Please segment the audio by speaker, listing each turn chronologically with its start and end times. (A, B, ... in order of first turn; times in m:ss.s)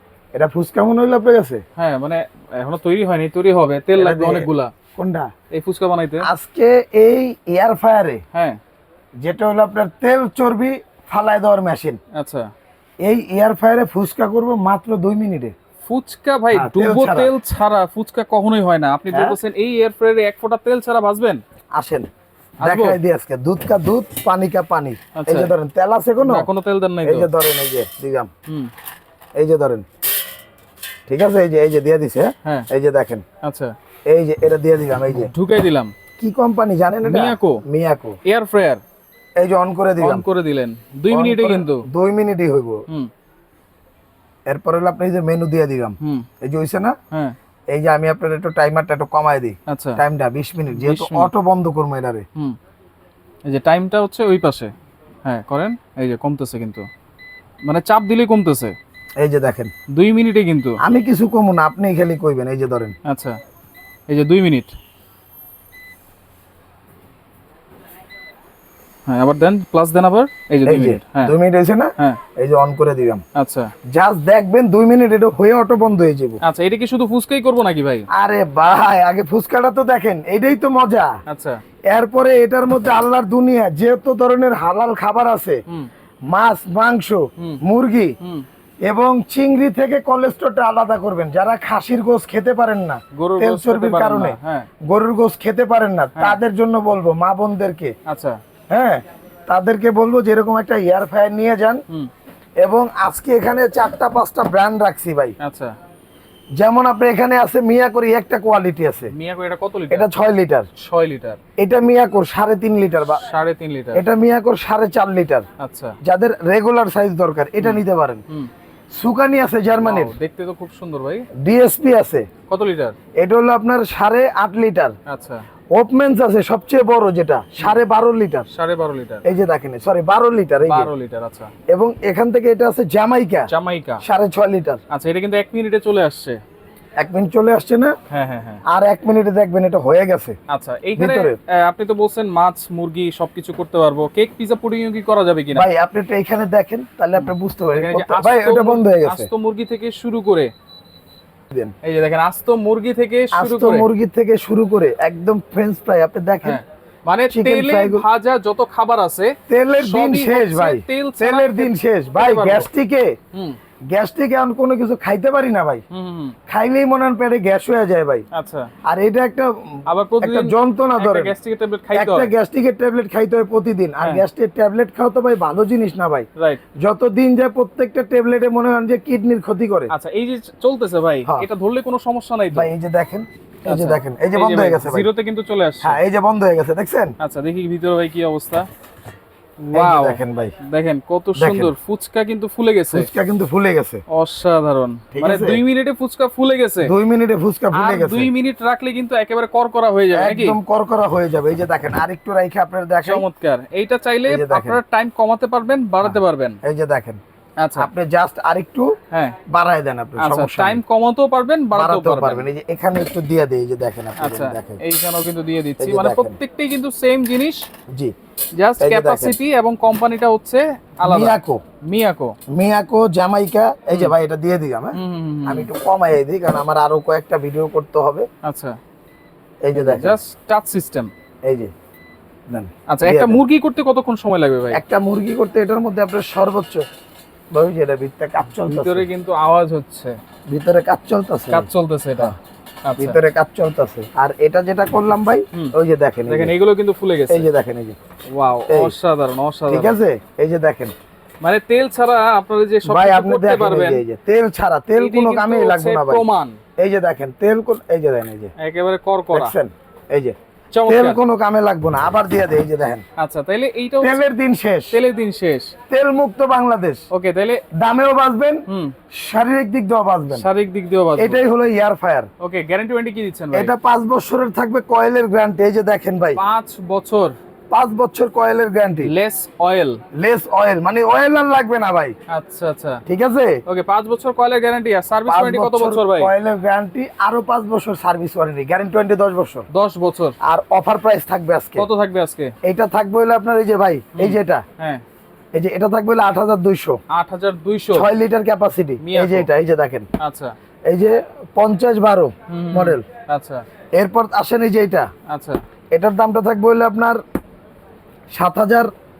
0:00.3-0:01.6 A
0:01.8-0:04.7 B
0:03.9-0:05.3 A
0:05.5-0:06.3 B
0:06.2-0:08.2 A
0:08.3-0:08.6 B
0:09.2-0:12.0 A
0:12.1-0:12.5 B
0:13.0-0:15.5 A
0:15.8-0:21.4 B
0:16.5-0:17.3 A
0:19.1-0:19.4 A
0:21.8-0:22.1 A
0:22.6-0:23.0 B
0:22.6-0:26.5 A
0:25.2-0:25.5 B
0:26.2-0:27.3 B
0:27.0-0:28.3 A
0:29.4-0:29.8 A
0:31.1-0:33.2 A
0:33.4-0:33.7 B
0:34.1-0:35.3 A
0:35.1-0:35.9 B
0:36.2-0:38.2 A
0:37.0-0:37.6 B
0:38.2-0:38.8 B
0:39.4-0:40.2 A
0:40.0-0:41.8 B
0:41.1-0:42.8 A
0:44.5-0:47.0 A
0:46.0-0:46.2 B
0:47.7-0:52.2 A
0:49.7-0:50.0 B
0:50.7-0:51.3 B
0:53.5-0:54.7 B
0:55.2-0:56.9 B
0:57.6-0:58.8 B
0:59.2-0:59.7 A
0:59.9-1:00.8 B
1:00.8-1:02.9 A
1:03.0-1:03.4 B
1:04.1-1:04.7 B
1:09.1-1:11.3 B
1:10.6-1:13.2 A
1:13.3-1:13.7 B
1:13.9-1:16.4 A
1:16.4-1:18.1 B
1:18.1-1:21.1 A
1:21.3-1:21.6 B
1:21.9-1:25.6 A
1:26.3-1:28.1 A
1:28.8-1:37.9 A
1:33.1-1:34.7 B
1:38.0-1:38.4 B
1:38.7-1:41.8 A
1:42.6-1:45.4 A
1:45.4-1:45.7 B
1:46.6-1:49.1 A
1:49.1-1:50.1 B
1:49.9-1:50.7 A
1:50.8-1:51.4 B
1:51.6-1:53.2 A
1:53.2-1:54.0 B
1:53.9-1:55.4 A
1:55.6-1:56.0 B
1:56.0-1:58.2 A
1:57.6-1:58.5 B
1:58.9-2:00.1 A
1:59.7-2:01.2 B
2:01.4-2:02.3 A
2:02.5-2:03.0 B
2:03.2-2:04.9 A
2:05.1-2:05.4 B
2:05.7-2:08.5 A
2:08.5-2:09.2 B
2:09.2-2:10.9 A
2:10.7-2:11.5 B
2:11.7-2:13.5 A
2:13.5-2:14.0 B
2:14.0-2:14.8 A
2:14.9-2:16.4 B
2:17.0-2:17.9 A
2:18.1-2:18.6 B
2:18.7-2:20.4 A
2:20.5-2:25.6 B
2:21.0-2:21.4 A
2:25.5-2:29.3 A
2:27.2-2:30.5 B
2:31.8-2:33.9 B
2:33.3-2:36.6 A
2:36.4-2:42.7 B
2:37.3-2:38.0 A
2:39.5-2:43.1 A
2:43.9-2:45.8 A
2:45.9-2:46.4 B
2:46.5-2:48.2 A
2:48.3-2:48.7 B
2:48.9-2:51.3 A
2:49.9-2:52.3 B
2:51.9-2:56.3 A
2:56.8-2:59.9 A
2:59.9-3:02.7 B
3:02.5-3:05.1 A
3:03.6-3:06.0 B
3:05.8-3:07.1 A
3:07.2-3:08.7 B
3:09.6-3:13.1 B
3:09.7-3:10.5 A
3:11.4-3:11.7 A
3:12.9-3:14.0 A
3:14.1-3:16.9 B
3:15.1-3:15.6 A
3:16.8-3:18.3 A
3:17.7-3:20.6 B
3:20.1-3:23.2 A
3:23.0-3:26.6 B
3:24.3-3:24.8 A
3:26.0-3:27.2 A
3:27.6-3:27.9 B
3:27.8-3:28.9 A
3:29.1-3:29.4 B
3:29.5-3:30.8 A
3:30.2-3:32.5 B
3:31.7-3:34.8 A
3:34.2-3:37.7 B
3:35.8-3:36.3 A
3:38.5-3:42.3 B
3:38.8-3:39.3 A
3:41.0-3:41.6 A
3:42.5-3:48.3 A
3:44.9-3:45.7 B
3:48.4-3:48.8 B
3:49.6-3:50.2 A
3:49.7-3:51.1 B
3:51.4-3:51.7 A
3:52.5-3:53.4 A
3:52.9-3:54.8 B
3:54.7-3:56.8 A
3:57.5-3:59.0 A
3:58.6-4:00.2 B
4:00.5-4:02.4 A
4:01.5-4:02.3 B
4:02.8-4:03.2 B
4:03.0-4:06.5 A
4:06.3-4:07.5 B
4:07.3-4:08.0 A
4:08.3-4:10.0 B
4:08.7-4:08.9 A
4:09.7-4:10.9 A
4:11.4-4:14.0 B
4:12.8-4:16.2 A
4:15.0-4:16.6 B
4:16.8-4:18.5 A
4:18.6-4:19.5 B
4:19.3-4:20.4 A
4:20.7-4:21.2 B
4:20.9-4:23.0 A
4:23.2-4:24.2 B
4:24.0-4:25.0 A
4:24.9-4:25.7 B
4:25.9-4:27.0 A
4:27.1-4:27.6 B
4:27.8-4:30.4 A
4:28.7-4:28.9 B
4:30.3-4:31.4 B
4:31.2-4:32.3 A
4:32.4-4:33.7 B
4:33.5-4:36.4 A
4:36.3-4:37.4 B
4:37.7-4:39.1 A
4:39.0-4:40.0 B
4:40.1-4:42.1 A
4:42.3-4:43.0 B
4:43.0-4:43.6 A
4:43.6-4:46.3 B
4:45.2-4:49.6 A
4:49.7-4:50.4 B
4:50.4-4:51.8 A
4:51.8-4:52.5 B
4:52.6-4:54.6 A
4:54.1-4:55.0 B
4:55.5-4:57.0 A
4:57.1-4:58.1 B
4:57.9-5:00.1 A
4:59.0-4:59.5 B
5:00.2-5:00.5 B
5:00.9-5:03.0 A
5:02.5-5:03.6 B
5:04.0-5:05.1 A
5:05.3-5:05.6 B
5:05.9-5:07.2 A
5:08.3-5:08.9 A